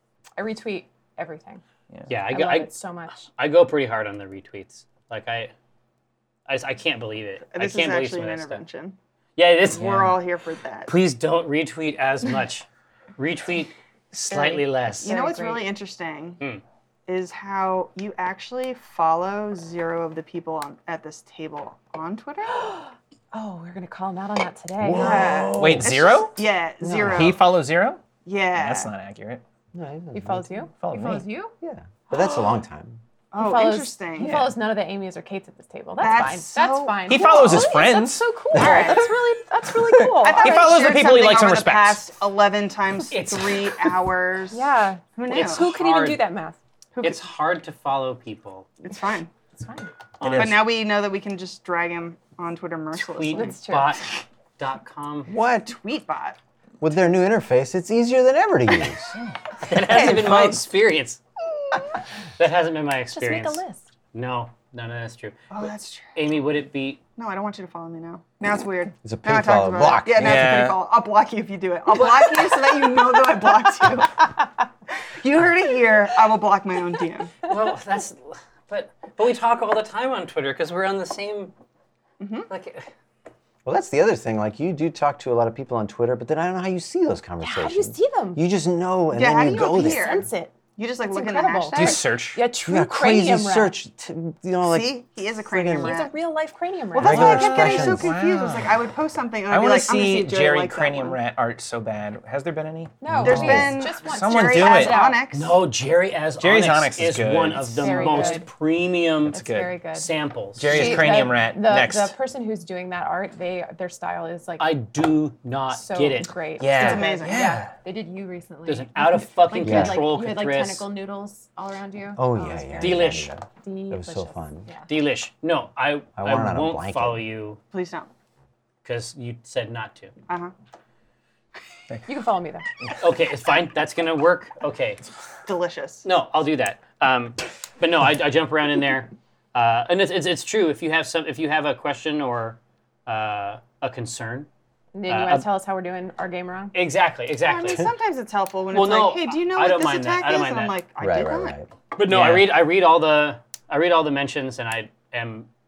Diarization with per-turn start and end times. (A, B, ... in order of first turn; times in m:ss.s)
0:00.4-0:01.6 A
0:02.1-0:02.7 B
0:02.2-0:03.3 A
0:03.4-0:05.5 B
0:06.5-0:08.6 B
0:07.5-0:09.0 C
0:09.4-0:10.0 B
0:09.6-0:10.9 C
0:09.8-0:10.2 D
0:10.8-0:12.6 B
0:13.2-0:15.1 B
0:14.3-0:15.7 A
0:15.0-0:16.4 C
0:17.1-0:22.6 C
0:22.5-0:25.6 A
0:24.8-0:26.2 E
0:24.9-0:27.4 C
0:25.6-0:26.4 D
0:26.8-0:27.4 E
0:27.0-0:28.0 D
0:28.2-0:28.9 C
0:28.5-0:29.4 D
0:29.7-0:30.7 E
0:30.1-0:31.5 A
0:30.8-0:31.2 D
0:31.6-0:33.0 E
0:33.3-0:34.5 C
0:33.4-0:40.7 A
0:36.0-0:37.2 C
0:37.1-0:38.9 D
0:38.5-0:39.2 C
0:39.8-0:42.1 D
0:40.2-0:44.6 C
0:43.1-0:43.8 B
0:44.5-0:46.6 A
0:45.1-0:45.7 C
0:45.3-0:46.2 B
0:47.0-0:47.2 C
0:47.0-0:48.7 B
0:48.8-0:49.3 C
0:49.5-0:49.9 A
0:50.2-0:50.6 B
0:50.2-0:50.7 D
0:50.4-0:53.6 C
0:52.9-0:55.3 B
0:53.3-0:54.0 A
0:55.3-0:56.4 C
0:56.8-0:59.1 E
0:59.6-1:01.2 B
0:59.8-1:00.5 A
0:59.9-1:00.5 D
1:02.4-1:03.6 B
1:03.1-1:03.8 A
1:04.1-1:05.5 B
1:05.5-1:06.1 C
1:06.1-1:07.0 B
1:07.2-1:14.3 C
1:09.0-1:10.6 E
1:10.2-1:10.8 D
1:15.2-1:17.4 C
1:17.4-1:21.5 B
1:22.2-1:22.5 C
1:22.5-1:22.9 B
1:23.6-1:30.2 E
1:27.4-1:28.4 A
1:29.1-1:32.0 C
1:29.7-1:33.7 A
1:31.7-1:32.4 D
1:32.6-1:36.0 E
1:34.7-1:36.2 C
1:35.8-1:37.8 A
1:36.9-1:38.1 E
1:36.9-1:41.2 C
1:37.0-1:38.8 D
1:39.5-1:45.0 D
1:43.0-1:45.2 A
1:43.2-1:45.6 C
1:43.4-1:43.7 E
1:45.3-1:49.4 B
1:46.4-1:48.3 D
1:47.8-1:48.5 A
1:49.3-1:50.1 A
1:49.3-1:49.7 D
1:49.9-1:51.2 B
1:50.6-1:52.1 D
1:50.6-1:54.7 A
1:54.6-1:56.3 B
1:55.7-2:04.9 A
1:56.6-1:57.7 D
1:56.8-1:57.5 C
1:58.6-2:00.9 B
1:59.6-2:00.0 E
2:02.2-2:04.7 E
2:02.8-2:03.3 B
2:04.9-2:07.6 B
2:06.2-2:07.2 E
2:07.7-2:08.1 C
2:08.8-2:10.1 B
2:10.3-2:10.5 C
2:12.0-2:12.6 A
2:13.0-2:15.0 B
2:15.4-2:16.0 C
2:16.0-2:24.5 B
2:24.9-2:26.7 A
2:25.1-2:25.5 B
2:26.7-2:27.9 B
2:27.4-2:31.6 C
2:28.7-2:30.8 B
2:31.0-2:31.7 E
2:31.9-2:35.5 B
2:32.1-2:32.5 D